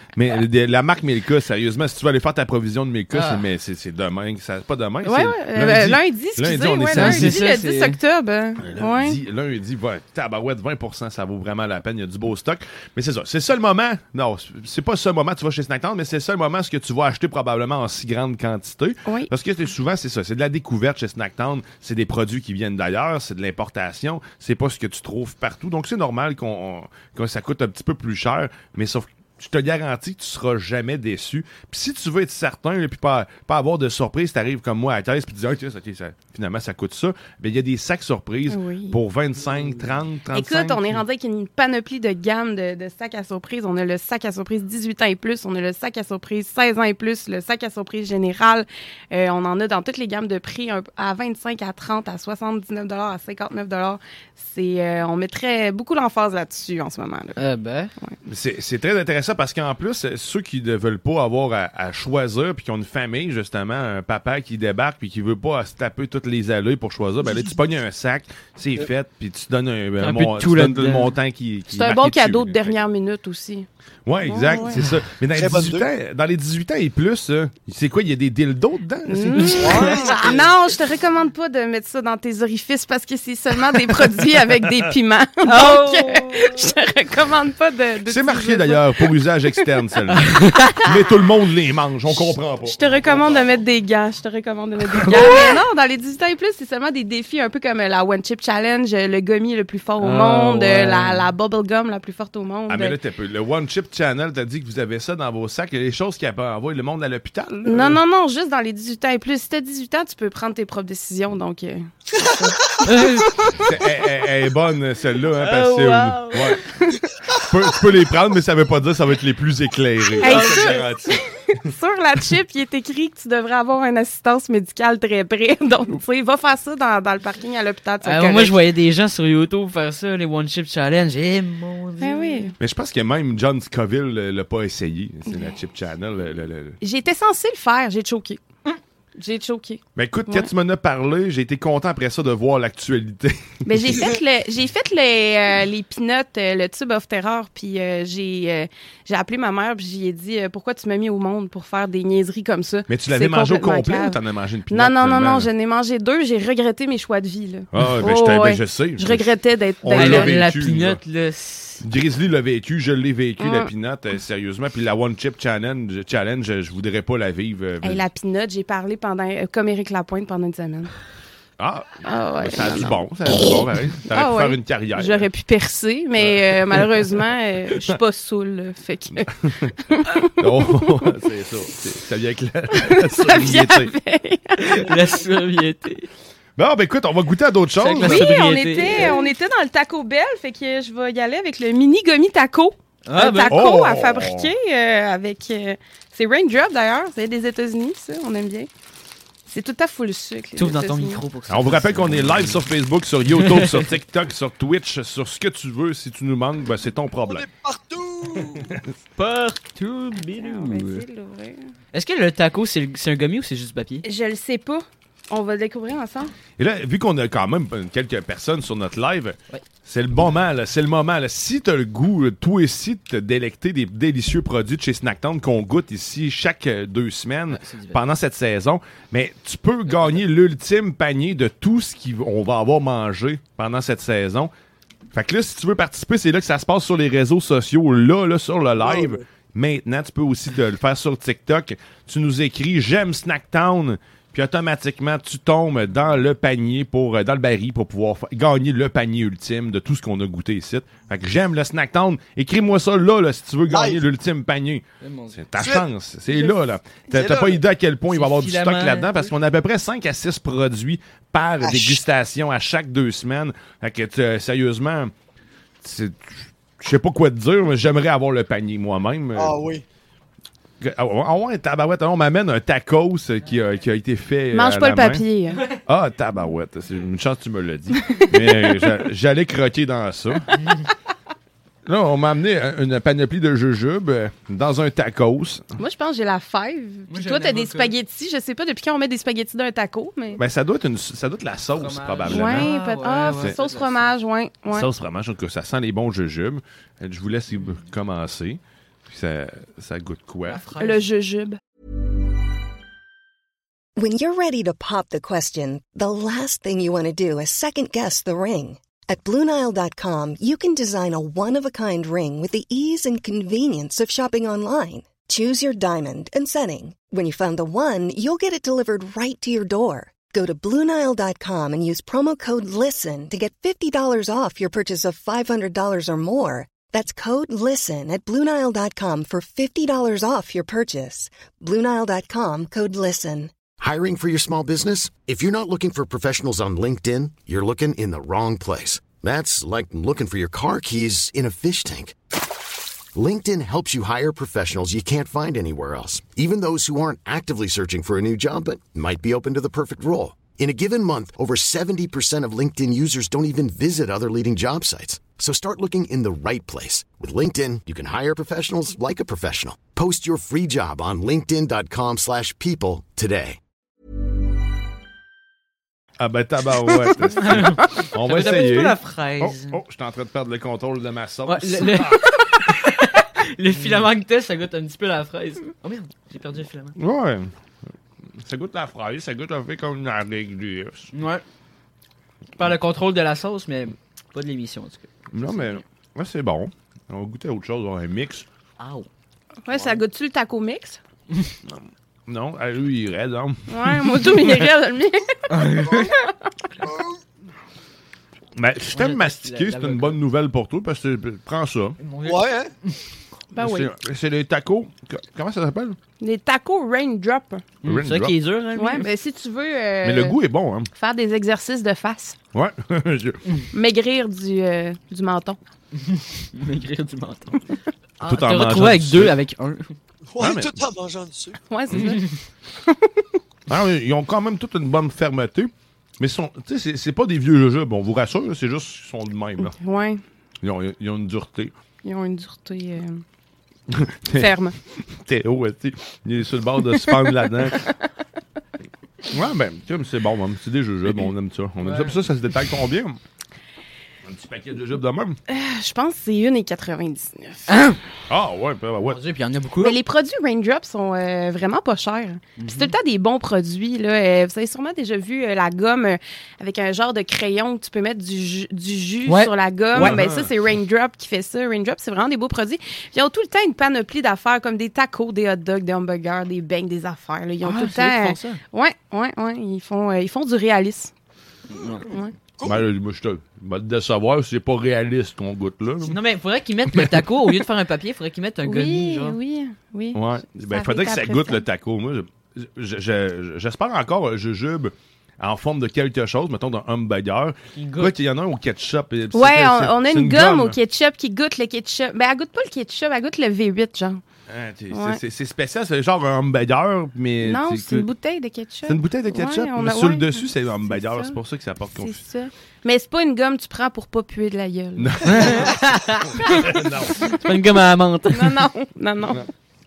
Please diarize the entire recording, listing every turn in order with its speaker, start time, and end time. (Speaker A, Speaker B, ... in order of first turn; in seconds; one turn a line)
Speaker A: 0.1-7.4
Speaker B: 3.1-3.4
Speaker C: 5.0-9.2
Speaker B: 6.9-8.0
Speaker A: 8.6-41.0
Speaker C: 38.5-39.0
Speaker C: 40.3-57.4
Speaker B: 57.4-57.9
Speaker A: 58.3-72.8
Speaker B: 70.0-71.2
Speaker C: 71.7-73.7
Speaker A: 74.1-80.1
Speaker C: 74.2-74.8
Speaker D: 75.3-75.9
Speaker C: 79.1-89.1
Speaker D: 79.5-80.5
Speaker B: 85.5-86.7
Speaker A: 88.1-93.4
Speaker B: 90.2-90.8
Speaker C: 92.6-103.0
Speaker A: 95.0-95.4
Speaker B: 100.0-101.3
Speaker A: 102.7-108.0
Speaker C: 107.7-113.7
Speaker B: 112.9-113.4
Speaker A: 113.6-116.6
Speaker B: 115.4-116.3
Speaker C: 115.5-117.0
Speaker A: 117.4-121.2
Speaker B: 120.2-120.8
Speaker C: 120.2-128.6
Speaker B: 128.0-132.5
Speaker C: 132.0-132.6
Speaker A: 132.6-136.8
Speaker C: 136.8-138.4
Speaker C: 139.2-140.5
Speaker A: 140.0-144.1
Speaker C: 143.7-154.2
Speaker A: 152.9-155.5
Speaker C: 154.7-160.4
Speaker A: 157.7-159.3
Speaker A: 159.8-161.0
Speaker B: 159.9-161.8
Speaker A: 161.8-168.1
Speaker C: 163.4-163.7
Speaker C: 167.8-170.9
Speaker A: 171.6-175.3
Speaker C: 172.1-173.1
Speaker C: 174.1-179.3
Speaker A: 176.2-176.9
Speaker A: 179.4-179.7
Speaker C: 179.9-181.1
Speaker A: 180.4-183.9
Speaker C: 182.7-185.2
Speaker B: 184.6-186.1
Speaker A: 186.6-189.1
Speaker B: 187.8-189.3
Speaker C: 188.0-198.7
Speaker B: 193.1-193.6
Speaker A: 193.5-194.5
Speaker C: 199.5-201.2
Speaker B: 200.6-202.6
Speaker A: 201.5-207.5
Speaker B: 203.3-203.9
Speaker D: 207.2-208.8
Speaker A: 208.7-208.9
Speaker B: 209.2-211.1
Speaker C: 210.3-211.7
Speaker B: 211.9-214.0
Speaker C: 214.0-216.3
Speaker A: 216.6-234.5
Speaker B: 227.5-228.0
Speaker B: 229.9-230.2
Speaker A: 235.1-265.1
Speaker D: 238.8-239.2
Speaker D: 253.7-254.0
Speaker B: 255.0-255.4
Speaker D: 255.6-256.5
Speaker D: 257.1-257.6
Speaker B: 258.1-259.3
Speaker D: 261.6-262.0
Speaker A: 265.8-269.6
Speaker D: 269.4-269.8
Speaker A: 270.8-275.2
Speaker C: 274.5-275.8
Speaker A: 275.8-280.5
Speaker A: 281.9-285.6
Speaker C: 285.8-290.4
Speaker B: 287.1-287.9
Speaker A: 290.4-292.7
Speaker B: 291.8-294.1
Speaker C: 292.3-294.9
Speaker A: 294.7-300.6
Speaker B: 300.5-301.1
Speaker C: 300.8-301.6
Speaker E: 304.0-333.5
Speaker F: 333.8-342.2
Speaker F: 343.1-363.6
Speaker A: 366.2-372.2
Speaker B: 367.3-369.8
Speaker B: 371.5-377.0
Speaker A: 377.0-377.5
Speaker A: 378.4-381.1
Speaker B: 381.1-381.4
Speaker B: 382.6-385.8
Speaker A: 385.3-388.5
Speaker B: 388.8-389.1
Speaker C: 389.6-391.0
Speaker B: 389.7-390.0
Speaker A: 391.7-394.7
Speaker C: 393.7-396.3
Speaker B: 395.5-396.1
Speaker A: 398.6-402.0
Speaker B: 398.9-400.2
Speaker B: 402.0-403.0
Speaker D: 402.2-402.7
Speaker C: 403.6-403.9
Speaker A: 403.6-406.0
Speaker C: 406.2-407.7
Speaker B: 407.8-409.1
Speaker A: 407.9-408.4
Speaker C: 408.8-410.4
Speaker A: 410.0-410.9
Speaker C: 410.9-412.4
Speaker A: 412.5-413.4
Speaker C: 413.7-415.6
Speaker B: 416.0-419.9
Speaker A: 418.2-419.4
Speaker D: 420.3-421.6
Speaker A: 420.4-420.8
Speaker C: 421.7-422.3
Speaker B: 422.0-422.4
Speaker C: 422.9-423.2
Speaker A: 423.7-429.7
Speaker C: 429.7-430.2
Speaker A: 430.6-431.7
Speaker C: 432.0-433.2
Speaker A: 433.9-437.8
Speaker C: 434.3-434.8
Speaker C: 436.9-437.7
Speaker A: 439.3-443.2
Speaker B: 441.8-442.2
Speaker A: 444.2-445.4
Speaker C: 445.5-447.7
Speaker B: 447.7-448.0
Speaker A: 448.3-449.2
Speaker B: 449.1-450.0
Speaker C: 449.8-471.1
Speaker B: 452.6-452.9
Speaker B: 459.3-460.2
Speaker A: 459.9-460.5
Speaker B: 467.6-468.6
Speaker B: 471.7-472.1
Speaker C: 472.1-472.3
Speaker D: 472.6-472.8
Speaker A: 472.6-476.2
Speaker B: 476.1-479.4
Speaker C: 478.6-481.6
Speaker A: 480.1-490.8
Speaker B: 487.8-488.1
Speaker C: 489.3-494.2
Speaker A: 494.5-498.1
Speaker C: 494.9-495.2
Speaker C: 497.4-501.4
Speaker A: 498.9-502.2
Speaker C: 502.0-505.7
Speaker A: 505.0-507.3
Speaker B: 505.3-506.6
Speaker B: 507.2-508.7
Speaker C: 508.3-509.4